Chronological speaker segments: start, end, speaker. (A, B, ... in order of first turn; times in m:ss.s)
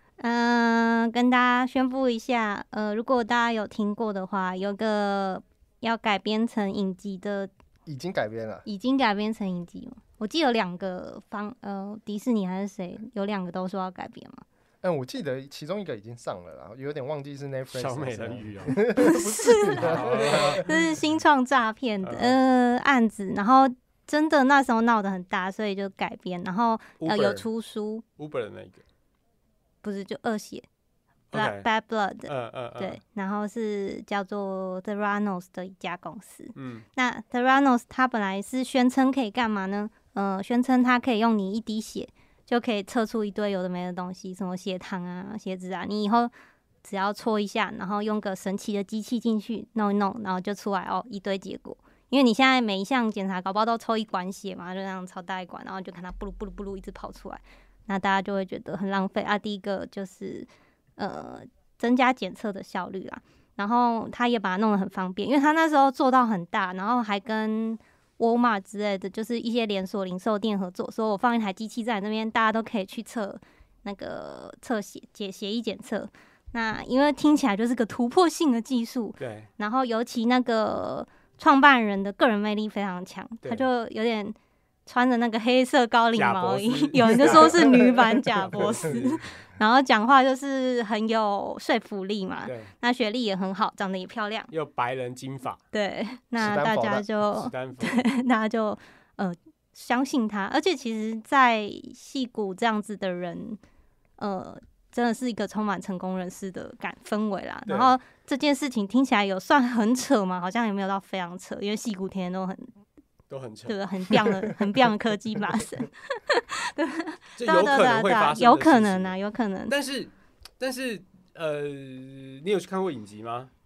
0:00.2-0:07.5 A
0:07.8-0:08.6 B
0:08.6-0:14.4 A
0:14.8-0:20.7 B
0:17.7-0:18.8 C
0:19.0-0:28.0 A
0:19.7-0:20.8 C
0:22.0-0:22.4 C
0:27.0-0:27.5 C
0:28.2-0:28.8 C
0:29.8-0:30.6 A
0:31.3-0:31.7 C
0:31.3-0:46.3 A
0:32.3-0:33.0 C
0:36.6-0:36.8 C
0:46.8-1:34.5 A
1:19.2-1:19.5 C
1:26.1-1:29.3 C
1:32.4-1:32.7 C
1:34.5-1:35.6 C
1:35.7-1:43.6 A
1:36.4-1:37.0 B
1:37.3-1:38.0 C
1:44.2-1:52.7 A
1:47.7-1:47.9 C
1:53.3-1:53.8 C
1:53.7-1:59.7 A
1:57.4-1:59.2 C
1:59.7-2:03.5 C